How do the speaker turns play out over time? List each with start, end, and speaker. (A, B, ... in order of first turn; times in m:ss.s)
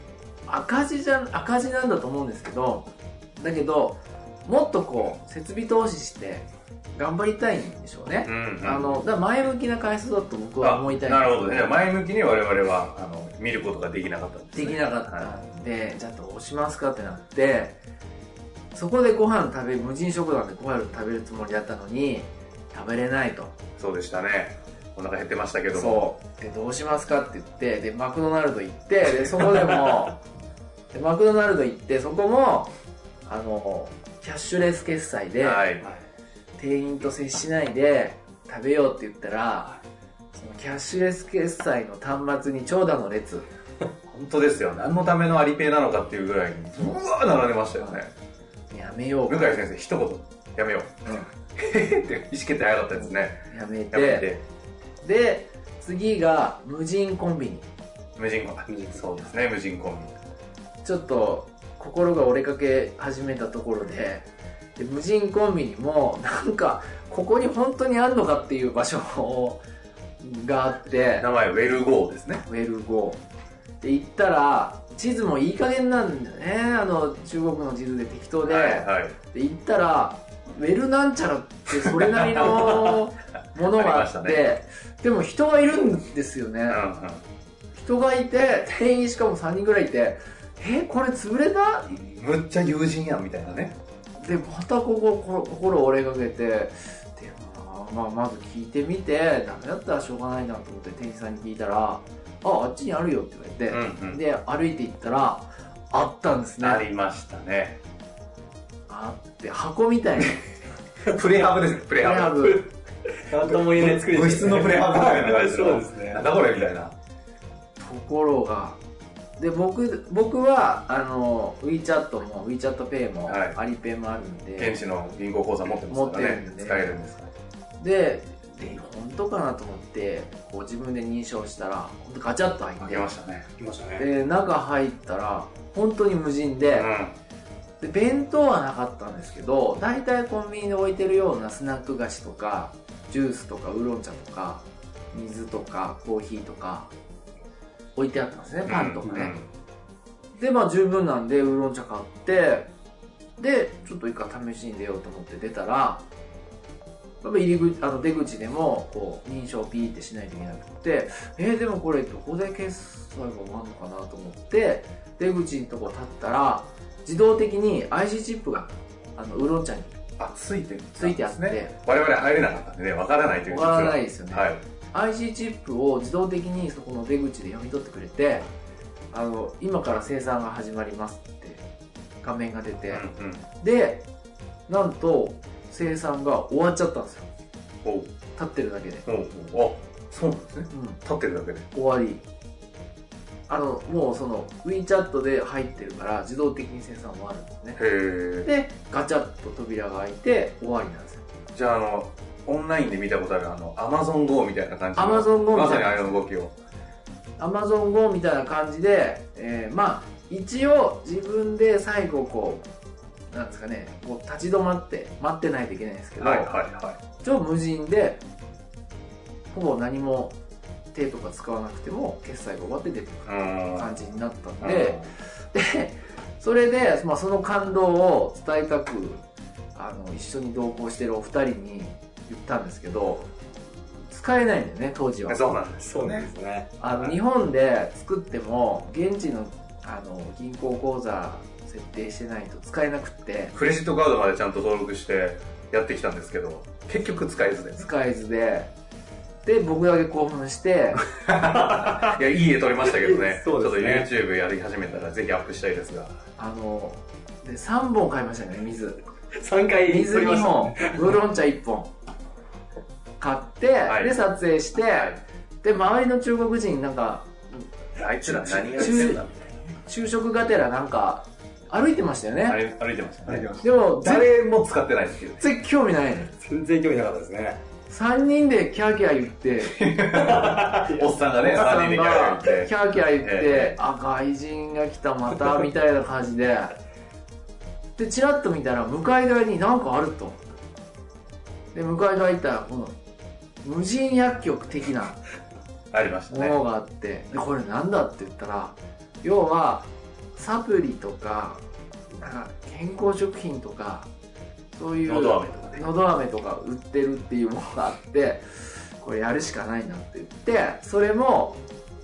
0:00.5-0:11.8 A
0:08.2-0:09.0 B
0:10.6-0:15.3 B
0:14.5-0:17.8 A
0:18.7-0:23.6 A
0:23.8-0:26.1 B
0:25.7-0:30.2 A
0:30.9-0:32.7 A
0:33.2-0:35.7 A
0:35.4-0:35.9 B
0:36.6-0:39.8 A
0:40.3-0:43.5 A
0:44.1-0:48.1 B
0:47.8-0:48.0 A
0:48.7-0:49.5 A
0:49.3-0:54.4 B
0:53.0-0:54.3 A
0:55.0-0:57.7 A
0:58.2-1:00.1 B
1:00.8-1:09.6 A
1:10.2-1:11.3 A
1:11.2-1:12.4 B
1:12.4-1:13.2 A
1:13.8-1:26.8 A
1:18.5-1:19.2 B
1:22.2-1:23.0 B
1:23.7-1:24.4 B
1:26.7-1:27.2 B
1:27.8-1:32.0 A
1:31.9-1:33.8 B
1:34.2-1:46.8 A
1:43.7-1:44.2 B
1:46.6-1:47.8 B
1:48.9-1:50.4 A
1:51.1-1:52.5 B
1:52.0-1:52.7 A
1:53.3-1:56.3 C
1:53.4-1:57.0 B
1:57.8-1:58.8 A
1:59.4-2:04.8 A
2:03.3-2:03.6 B
2:04.6-2:07.3 B
2:05.9-2:06.9 A
2:07.8-2:13.1 A
2:12.8-2:13.5 B
2:13.6-2:14.1 C
2:14.0-2:16.9 A
2:16.7-2:17.2 B
2:17.8-2:26.9 A
2:28.0-2:29.3 A
2:28.6-2:29.4 B
2:30.4-2:32.7 A
2:33.4-2:36.0 A
2:37.2-2:50.0 A
2:50.2-2:54.6 B
2:51.0-2:51.8 A
2:53.5-2:58.5 A
2:59.1-3:01.6 A
3:02.2-3:04.1 A
3:02.9-3:03.4 B
3:04.7-3:07.3 A
3:07.8-3:08.1 B
3:08.4-3:09.0 A
3:09.1-3:11.7 B
3:10.7-3:11.0 A
3:11.7-3:12.2 A
3:13.5-3:17.8 A
3:17.8-3:18.5 B
3:18.4-3:21.2 A
3:21.5-3:26.5 B
3:25.0-3:26.2 A
3:27.4-3:32.7 A
3:33.3-3:36.6 A
3:36.2-3:37.0 B
3:37.2-3:38.2 A
3:39.5-3:40.4 A
3:40.9-3:49.2 A
3:43.3-3:43.9 B
3:44.6-3:45.1 B
3:49.8-3:53.3 A
3:54.1-3:55.4 A
3:55.3-3:56.3 B
3:55.8-3:56.7 C
3:56.8-4:03.6 A
3:56.9-3:57.2 B
4:03.5-4:07.9 B
4:07.8-4:08.7 A
4:09.4-4:11.1 A
4:11.5-4:16.2 B
4:11.6-4:12.1 C
4:12.9-4:14.1 C
4:16.4-4:19.0 A
4:19.4-4:21.2 C
4:19.9-4:21.9 A
4:23.2-4:27.7 A
4:23.9-4:24.2 B
4:24.9-4:25.2 B
4:28.0-4:29.4 B
4:28.2-4:29.2 A
4:29.8-4:32.6 A
4:32.5-4:35.4 B
4:33.6-4:34.3 A
4:35.4-4:36.4 A
4:36.4-4:37.6 C
4:37.9-4:39.8 A
4:39.6-4:43.8 B
4:40.2-4:41.1 C
4:41.3-4:46.7 A
4:48.0-4:50.4 A
4:51.7-4:53.0 A
4:53.6-4:55.2 A
4:55.9-4:56.6 B
4:56.3-5:01.6 A
5:02.2-5:04.1 A
5:04.7-5:08.4 A
5:05.0-5:05.9 B
5:09.0-5:11.6 A